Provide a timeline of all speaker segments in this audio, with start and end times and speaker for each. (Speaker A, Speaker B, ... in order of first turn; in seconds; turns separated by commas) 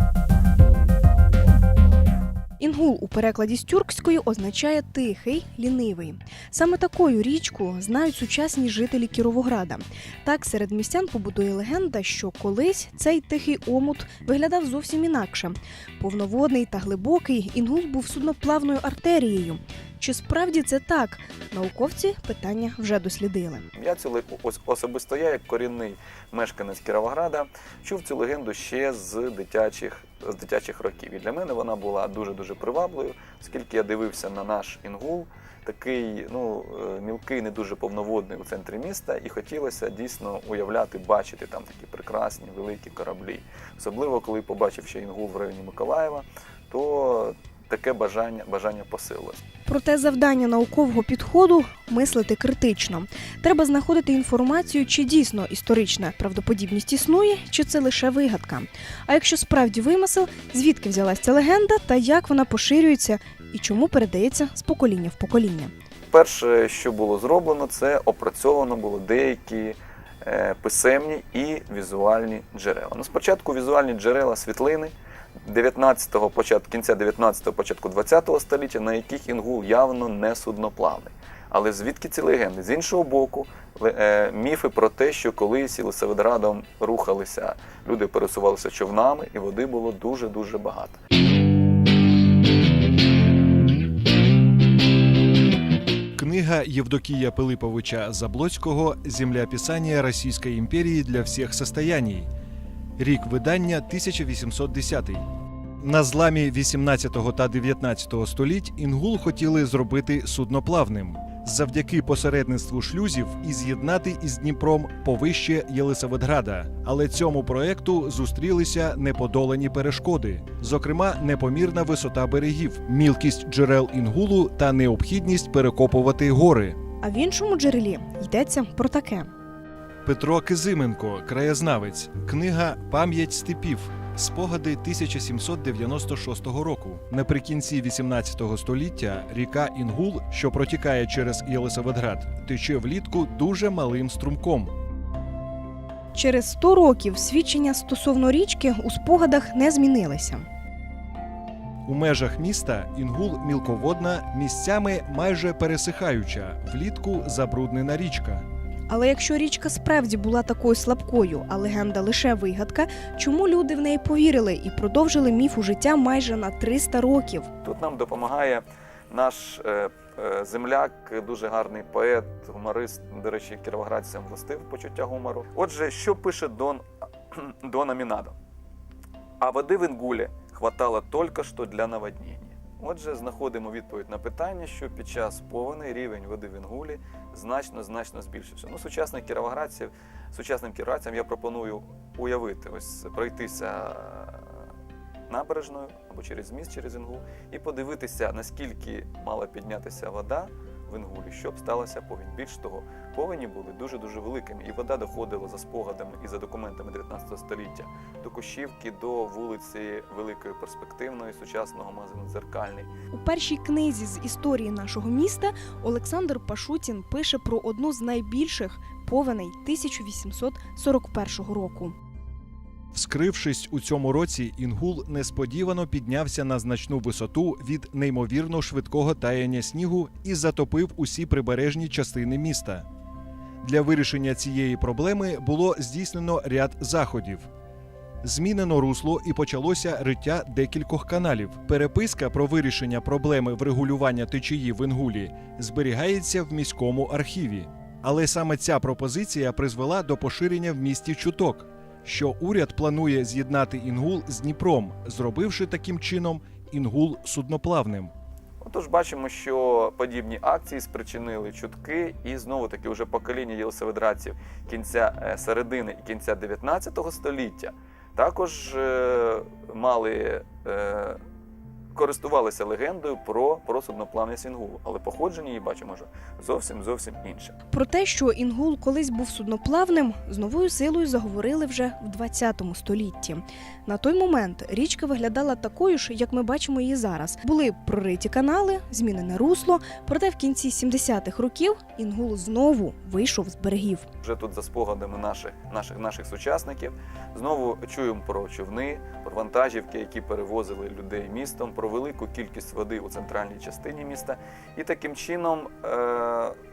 Speaker A: 2.6-23.6, Speaker B: 23.8-49.4, Speaker A: 49.6-65.7, Speaker B: 66.1-91.0, Speaker C: 96.2-102.3, Speaker C: 103.0-105.2, Speaker C: 105.8-126.8, Speaker A: 127.0-129.3, Speaker C: 130.0-144.7, Speaker A: 146.1-150.4, Speaker C: 151.8-158.4, Speaker A: 158.9-167.5, Speaker B: 167.6-178.3, Speaker B: 179.4-194.5, Speaker B: 195.3-212.9, Speaker A: 213.1-221.9, Speaker C: 222.9-232.8, Speaker C: 233.6-237.5, Speaker C: 238.2-258.1, Speaker B: 258.6-271.2, Speaker B: 271.9-277.6, Speaker A: 277.7-294.1, Speaker B: 294.2-306.6